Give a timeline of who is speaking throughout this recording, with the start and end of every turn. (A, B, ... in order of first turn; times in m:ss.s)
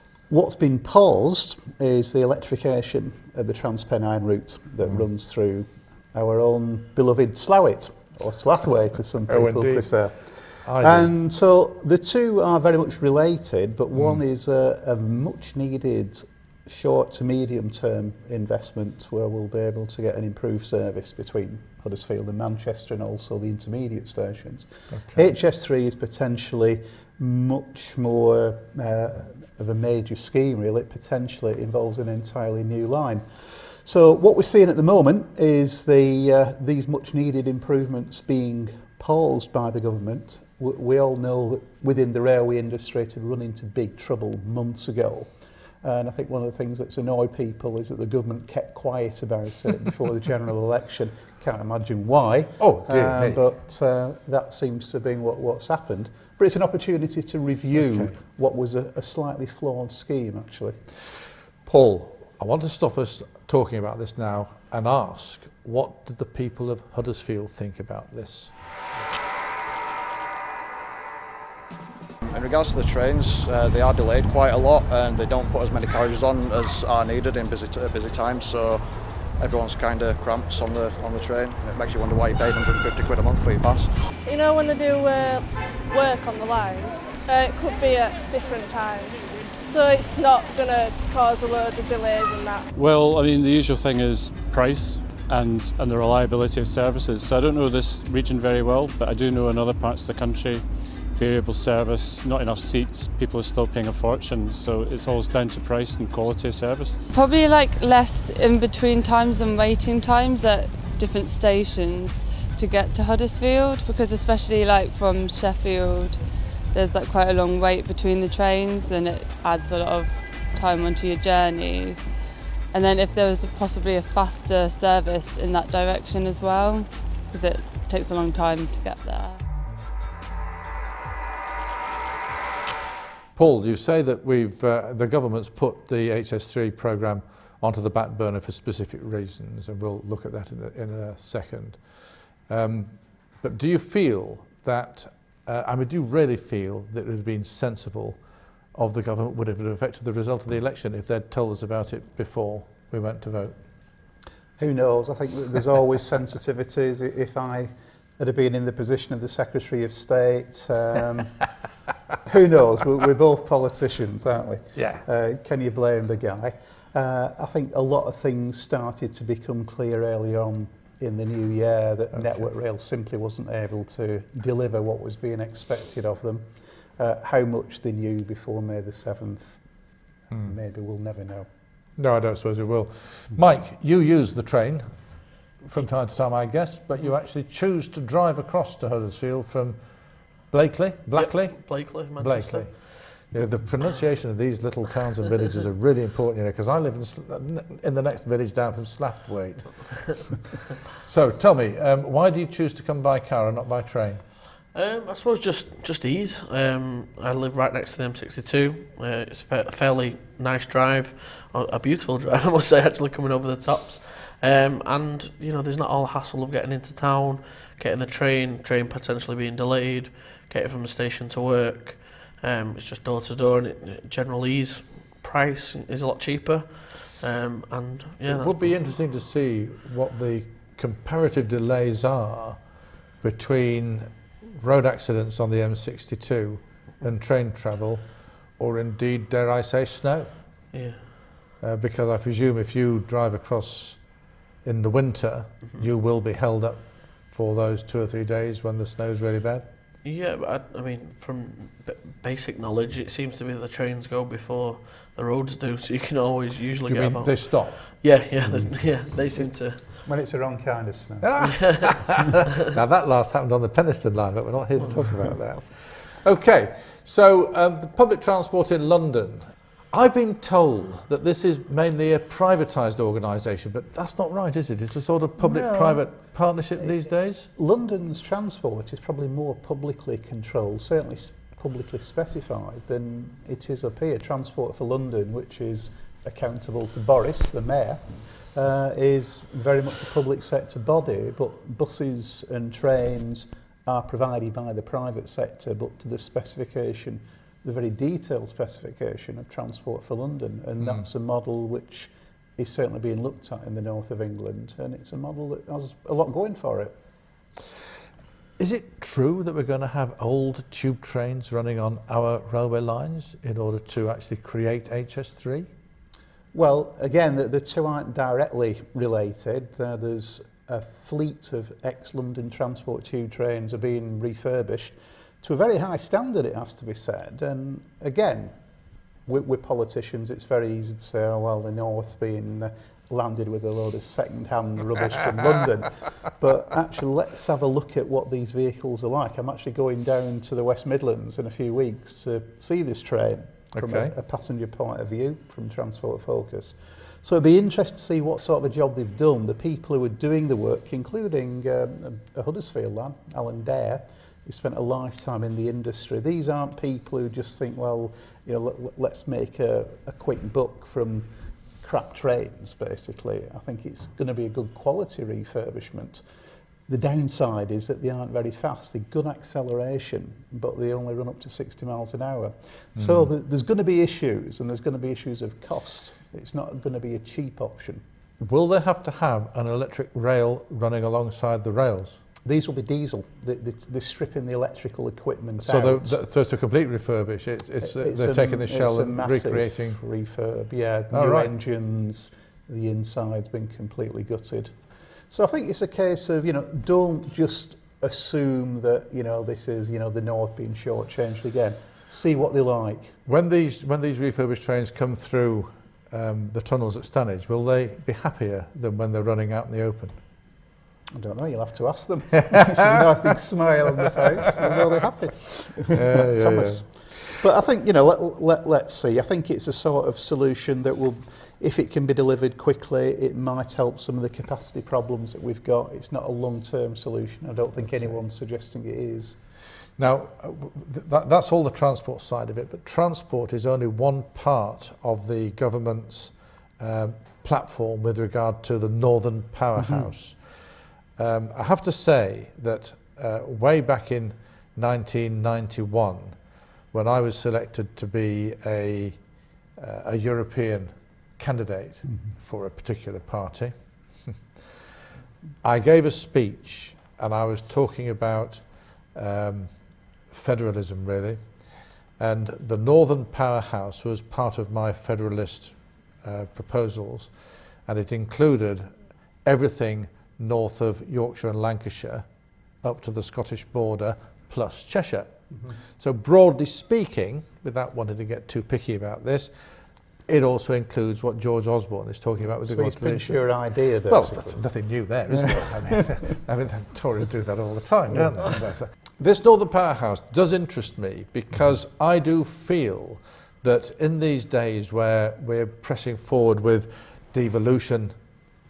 0:00.3-1:00.8 A
0:09.3-0:11.1 B
0:14.0-0:14.2 B
0:24.9-0:25.3 B
0:52.6-0:53.4 B
0:57.7-0:58.2 B
1:01.1-1:08.6 B
1:12.2-1:18.8 C
1:19.4-1:23.9 C
1:24.2-1:32.7 D
1:32.8-1:47.0 E
1:47.1-2:02.1 F
2:02.7-2:09.4 F
2:13.4-2:28.2 B
2:28.7-2:33.6 B
2:34.6-2:41.4 A
2:42.2-3:01.5 A
2:44.8-2:45.0 B
2:52.1-2:52.4 B
3:02.0-3:24.3 B
3:11.2-3:13.2 G
3:24.7-3:48.6 G
3:48.3-3:52.6 B
3:53.2-4:00.4 B
4:00.7-4:01.2 G
4:01.6-4:09.7 B
4:10.0-4:19.9 G
4:16.9-4:17.8 B
4:18.4-4:18.8 A
4:19.8-4:21.6 A
4:21.2-4:37.5 B
4:21.4-4:21.9 G
4:24.8-4:25.2 A
4:35.4-5:07.0 A
5:00.8-5:01.1 B
5:08.6-5:15.7 B
5:16.5-5:28.6 A
5:29.2-6:06.2 A
5:43.7-5:44.1 B
6:06.9-6:18.0 A
6:13.0-6:13.3 B
6:18.4-6:22.2 B
6:22.4-6:26.2 A
6:25.6-6:30.0 B
6:27.8-6:43.2 A
6:31.1-6:31.5 B
6:43.3-6:50.2 B
6:51.1-7:09.4 A
6:55.9-6:57.3 B
7:07.8-7:08.2 B
7:10.0-7:34.7 B
7:19.8-7:20.1 A
7:32.0-7:32.3 A
7:35.6-7:52.3 B
7:52.8-8:18.2 B
7:55.5-7:55.8 A
8:02.5-8:06.2 A